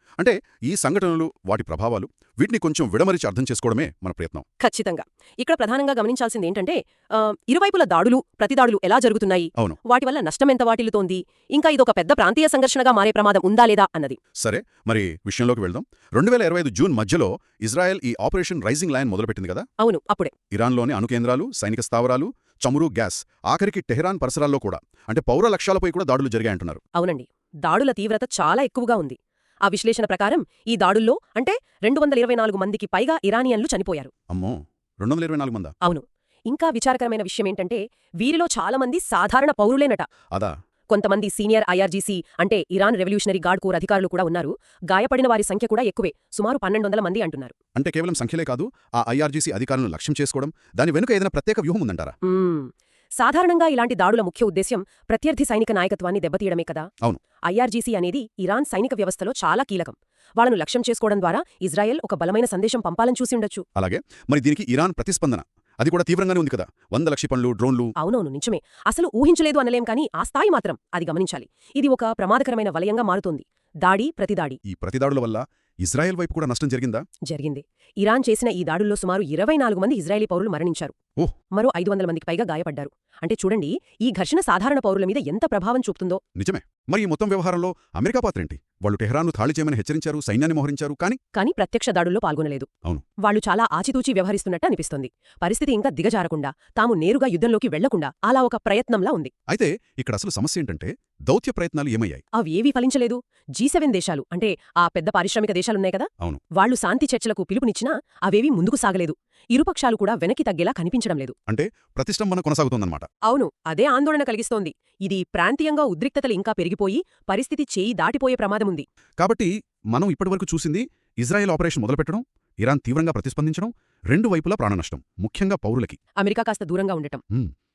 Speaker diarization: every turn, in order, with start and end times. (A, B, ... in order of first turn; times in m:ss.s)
0:00.2-0:04.5 A
0:04.6-0:14.2 B
0:14.4-0:19.7 A
0:19.8-0:20.3 B
0:20.5-0:26.8 A
0:27.0-0:34.1 B
0:34.3-0:35.7 A
0:35.8-0:40.1 B
0:40.9-0:47.6 B
0:47.8-0:52.2 A
0:52.2-0:56.9 B
0:57.5-1:03.6 B
1:03.8-1:07.9 A
1:08.0-1:14.6 B
1:14.6-1:17.0 A
1:17.3-1:20.9 B
1:21.5-1:26.2 B
1:26.4-1:31.2 A
1:31.4-1:32.7 B
1:33.2-1:39.3 B
1:39.5-1:42.2 A
1:42.4-1:51.4 B
1:51.5-1:53.1 A
1:53.2-1:58.9 B
1:59.2-2:06.0 A
2:06.2-2:07.2 B